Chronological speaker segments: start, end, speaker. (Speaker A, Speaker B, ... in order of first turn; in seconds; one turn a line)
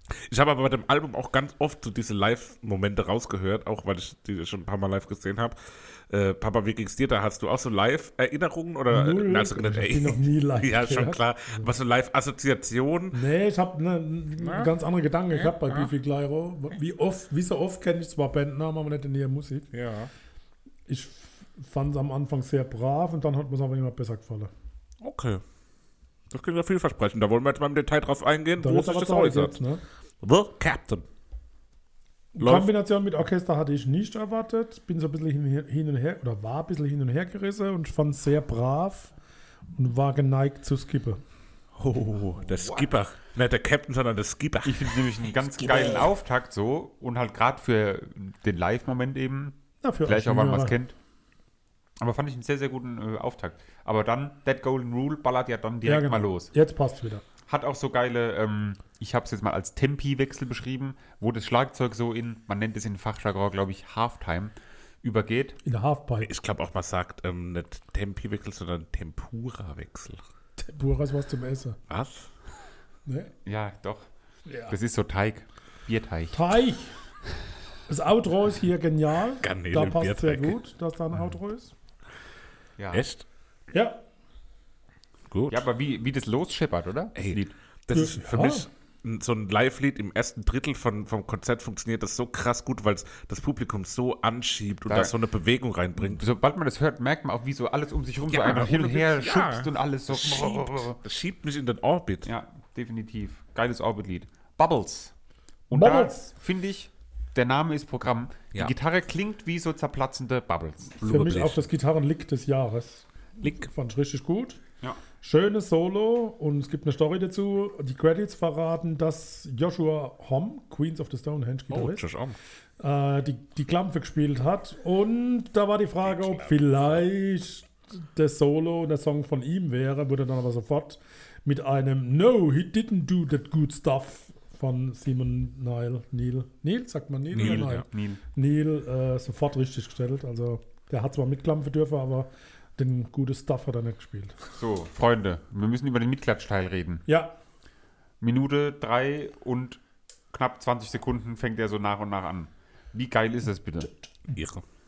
Speaker A: 0.3-13.2
Speaker B: 8.9-11.7
Speaker B: 13.1-19.7
Speaker A: 14.4-14.7
Speaker A: 15.3-15.9
Speaker A: 19.7-20.1
Speaker B: 20.9-24.5
Speaker A: 25.0-25.4
Speaker A: 26.3-29.6
Speaker B: 28.6-29.8
Speaker A: 30.2-31.1
Speaker B: 32.4-39.1
Speaker A: 32.4-32.7
Speaker B: 39.8-41.2
Speaker A: 41.8-45.9
Speaker C: 42.5-42.9
Speaker C: 44.6-51.0
Speaker B: 49.8-50.8
Speaker C: 52.0-56.5
Speaker B: 55.8-57.2
Speaker C: 57.5-65.6
Speaker B: 65.7-66.3
Speaker A: 66.2-70.2
Speaker B: 70.6-71.8
Speaker A: 71.9-72.3
Speaker B: 73.1-73.3
Speaker C: 73.5-74.1
Speaker B: 74.5-74.8
Speaker C: 74.7-76.4
Speaker B: 76.3-77.0
Speaker B: 77.9-81.7
Speaker A: 79.4-80.5
Speaker C: 82.8-83.1
Speaker A: 82.9-83.2
Speaker B: 83.7-84.0
Speaker A: 85.3-85.7
Speaker C: 85.5-87.5
Speaker A: 87.2-96.2
Speaker B: 87.9-88.7
Speaker C: 94.9-95.2
Speaker C: 96.0-101.0
Speaker A: 98.3-102.3
Speaker C: 102.2-105.1
Speaker C: 105.7-111.1
Speaker B: 105.7-106.3
Speaker A: 111.0-111.7
Speaker B: 111.0-114.6
Speaker A: 113.4-113.7
Speaker B: 115.2-122.0
Speaker A: 121.7-122.4
Speaker B: 122.8-144.5
Speaker A: 126.0-127.0
Speaker A: 137.3-137.8
Speaker C: 137.3-138.2
Speaker C: 144.6-147.1
Speaker B: 147.1-147.3
Speaker C: 148.2-149.8
Speaker C: 150.3-153.9
Speaker A: 154.3-154.6